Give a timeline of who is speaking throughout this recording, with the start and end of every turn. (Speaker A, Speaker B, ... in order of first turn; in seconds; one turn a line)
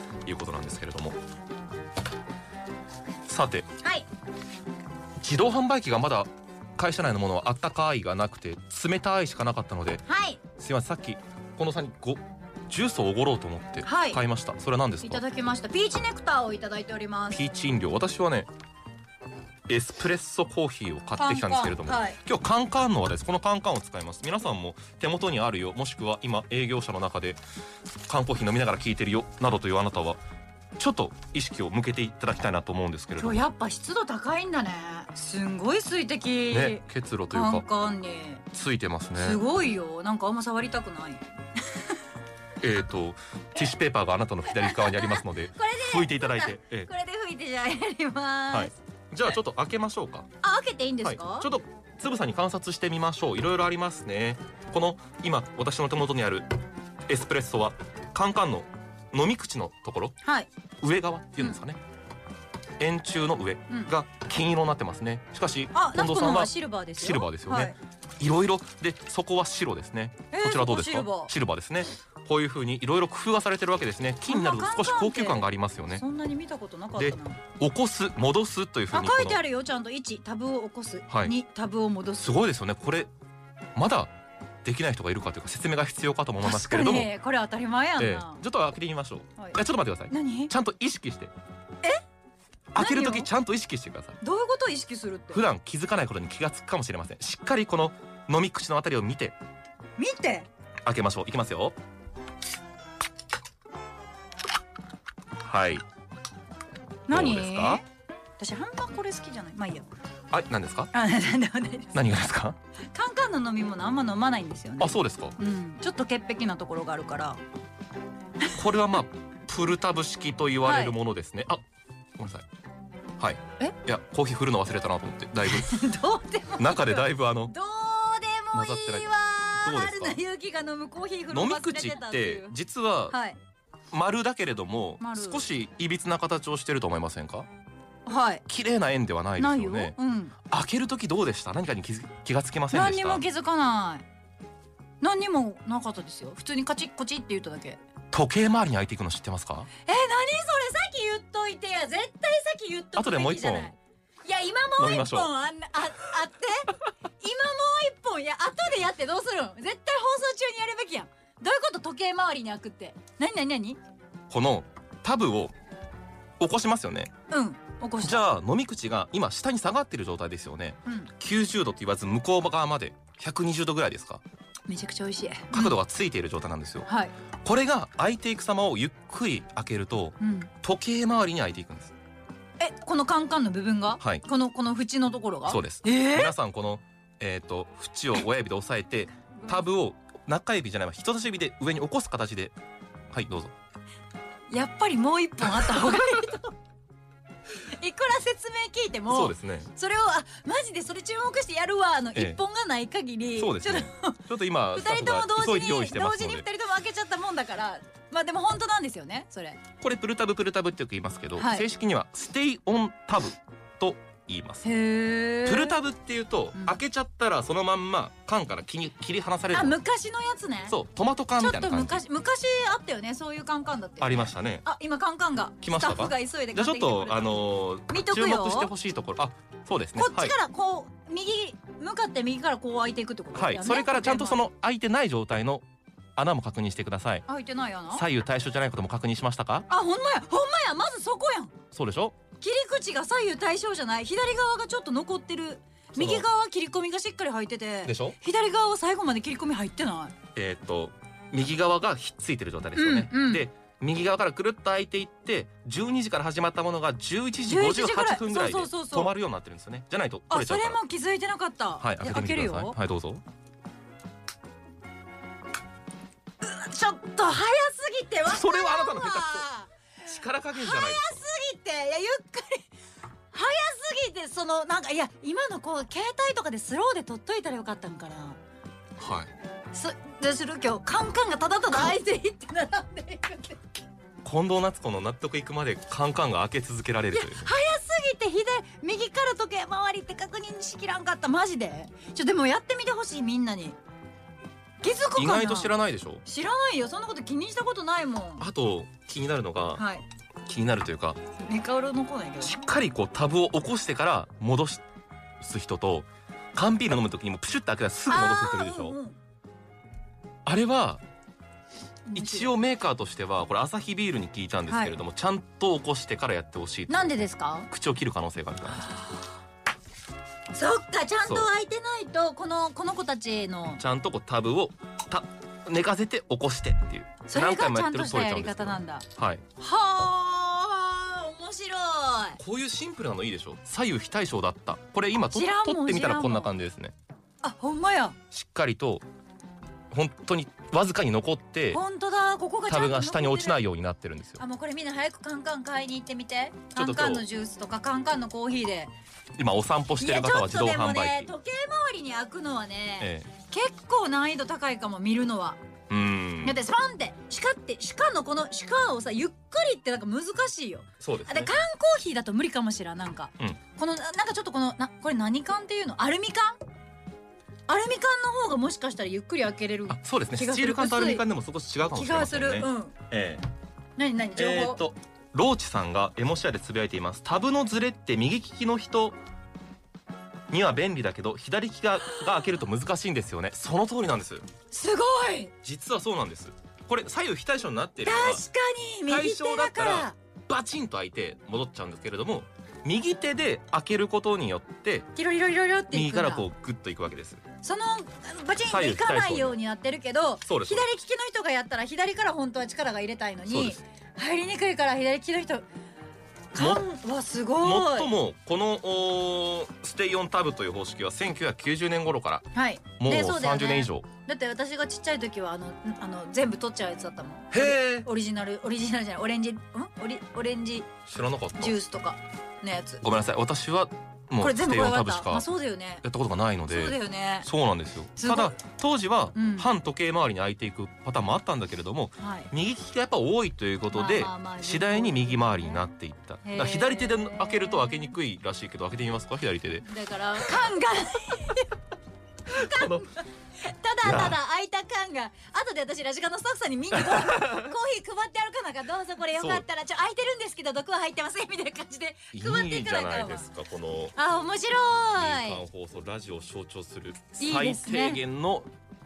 Speaker A: 0.2-1.2
Speaker A: 3.2-3.7
Speaker B: 3.8-4.1
Speaker A: 5.2-15.2
Speaker B: 10.1-10.4
Speaker B: 13.8-14.2
Speaker B: 15.0-17.4
Speaker A: 17.3-18.5
Speaker A: 19.7-27.4
Speaker B: 21.2-22.2
Speaker A: 28.1-30.2
Speaker A: 30.8-33.4
Speaker B: 33.1-38.5
Speaker A: 36.5-37.6
Speaker A: 38.5-39.4
Speaker B: 39.1-42.0
Speaker A: 42.6-46.9
Speaker B: 44.5-48.7
Speaker A: 48.5-50.3
Speaker B: 50.4-51.5
Speaker A: 51.0-56.5
Speaker A: 57.1-60.1
Speaker B: 60.2-60.5
Speaker A: 60.8-61.8
Speaker A: 62.8-76.0
Speaker B: 65.7-67.8
Speaker B: 70.3-71.3
Speaker B: 74.2-77.4
Speaker A: 77.0-79.4
Speaker B: 78.9-82.3
Speaker A: 81.1-81.3
Speaker A: 82.2-83.1
Speaker A: 83.8-84.1
Speaker A: 84.6-87.1
Speaker B: 86.4-88.4
Speaker A: 88.0-91.3
Speaker B: 89.4-90.5
Speaker A: 92.7-94.2
Speaker B: 92.8-93.3
Speaker B: 94.2-95.4
Speaker A: 95.3-99.3
Speaker B: 100.0-100.5
Speaker A: 100.8-101.7
Speaker A: 105.4-105.8
Speaker B: 107.1-107.8
Speaker A: 107.1-107.8
Speaker B: 108.4-109.9
Speaker A: 110.3-110.9
Speaker B: 110.9-112.1
Speaker A: 111.9-112.6
Speaker B: 112.9-117.4
Speaker A: 114.8-115.4
Speaker A: 118.5-121.6
Speaker B: 120.6-121.0
Speaker A: 122.2-122.4
Speaker A: 123.2-125.8
Speaker B: 125.5-132.6
Speaker A: 126.6-127.5
Speaker A: 128.5-129.1
Speaker A: 129.6-130.2
Speaker A: 131.3-133.2
Speaker B: 133.1-133.4
Speaker A: 133.9-137.5
Speaker B: 135.0-135.5
Speaker B: 138.1-138.4
Speaker A: 138.4-139.9
Speaker B: 139.4-140.3
Speaker A: 140.5-143.2
Speaker B: 142.7-144.1
Speaker B: 145.0-147.8
Speaker A: 148.1-149.7
Speaker B: 149.8-163.8
Speaker A: 152.9-153.7
Speaker A: 154.8-155.3
Speaker A: 164.3-165.5
Speaker A: 166.4-167.1
Speaker B: 167.3-168.3
Speaker A: 168.0-174.2
Speaker B: 170.8-171.1
Speaker B: 174.7-175.8
Speaker A: 175.5-176.9
Speaker B: 176.8-177.1
Speaker A: 177.4-181.9
Speaker B: 180.2-180.5
Speaker B: 182.6-186.3
Speaker A: 185.5-192.5
Speaker A: 193.1-193.5
Speaker B: 194.5-196.6
Speaker B: 197.5-204.2
Speaker A: 199.1-199.7
Speaker A: 203.4-206.4
Speaker B: 204.7-209.6
Speaker A: 209.8-214.7
Speaker B: 211.4-211.7
Speaker B: 214.6-215.8
Speaker A: 215.4-219.8
Speaker B: 216.5-216.8
Speaker B: 219.5-220.8
Speaker A: 220.7-222.0
Speaker B: 221.4-228.7
Speaker A: 224.0-224.6
Speaker A: 225.6-230.3
Speaker B: 229.9-234.5
Speaker A: 233.3-235.6
Speaker A: 236.2-237.2
Speaker B: 237.3-238.0
Speaker A: 237.9-239.7
Speaker B: 239.7-241.5
Speaker A: 241.7-242.2
Speaker B: 242.4-250.1
Speaker A: 245.9-246.2
Speaker A: 247.8-248.2
Speaker A: 250.3-260.8
Speaker B: 252.8-253.5
Speaker B: 257.5-259.1
Speaker B: 260.3-262.8
Speaker A: 261.8-263.2
Speaker B: 266.4-269.7
Speaker A: 268.2-269.5
Speaker A: 270.0-271.2
Speaker B: 270.5-272.6
Speaker B: 273.3-278.4
Speaker A: 279.0-279.3
Speaker B: 279.7-283.7
Speaker A: 284.2-287.5
Speaker B: 287.1-293.8
Speaker B: 294.8-298.4
Speaker A: 295.1-296.2
Speaker A: 298.4-299.8
Speaker B: 299.8-300.0
Speaker A: 300.4-301.2
Speaker B: 301.4-302.6
Speaker A: 302.4-304.8
Speaker A: 305.4-308.9
Speaker B: 308.1-309.2
Speaker A: 310.4-311.0
Speaker B: 312.1-312.5
Speaker A: 312.1-317.1
Speaker B: 314.7-314.9
Speaker B: 316.9-317.7
Speaker A: 317.7-318.9
Speaker B: 318.8-319.1
Speaker B: 320.5-323.8
Speaker A: 323.8-329.4
Speaker B: 327.3-329.1
Speaker B: 329.6-332.4
Speaker A: 332.4-336.9
Speaker B: 335.3-336.6
Speaker B: 337.4-338.2
Speaker A: 338.3-339.0
Speaker A: 339.9-341.8
Speaker B: 341.7-343.6
Speaker A: 342.7-344.4
Speaker B: 344.4-348.9
Speaker A: 346.7-347.2
Speaker A: 349.4-351.3
Speaker B: 350.0-355.6
Speaker A: 353.0-353.3
Speaker A: 355.9-356.6
Speaker B: 356.4-366.6
Speaker A: 361.0-361.6
Speaker B: 367.7-371.2
Speaker A: 369.9-373.4
Speaker B: 371.9-372.9
Speaker B: 374.0-374.8
Speaker A: 374.4-379.2
Speaker A: 380.5-384.4
Speaker B: 382.1-382.5
Speaker B: 384.7-385.5
Speaker A: 385.6-388.4
Speaker B: 388.0-390.1
Speaker A: 389.1-395.1
Speaker B: 395.1-396.4
Speaker A: 395.9-397.4
Speaker B: 397.6-405.7
Speaker A: 398.6-399.6
Speaker A: 400.4-400.9
Speaker A: 403.5-403.8
Speaker B: 406.5-408.1
Speaker A: 406.6-406.9
Speaker A: 407.6-412.4
Speaker B: 412.5-420.9
Speaker A: 413.0-414.1
Speaker A: 417.5-418.1
Speaker A: 421.1-421.8
Speaker B: 421.6-423.0
Speaker A: 423.0-425.4
Speaker B: 424.4-426.0
Speaker A: 426.0-439.9
Speaker B: 426.7-427.5
Speaker B: 428.2-428.6
Speaker B: 429.3-429.7
Speaker B: 432.2-432.5
Speaker B: 433.9-435.8
Speaker B: 436.4-438.1
Speaker B: 439.8-441.7
Speaker B: 442.5-453.5
Speaker A: 442.5-443.1
Speaker A: 444.0-444.4
Speaker A: 446.9-447.7
Speaker A: 449.3-449.6
Speaker A: 452.3-454.2
Speaker B: 454.1-455.6
Speaker A: 455.1-458.7
Speaker B: 457.4-458.2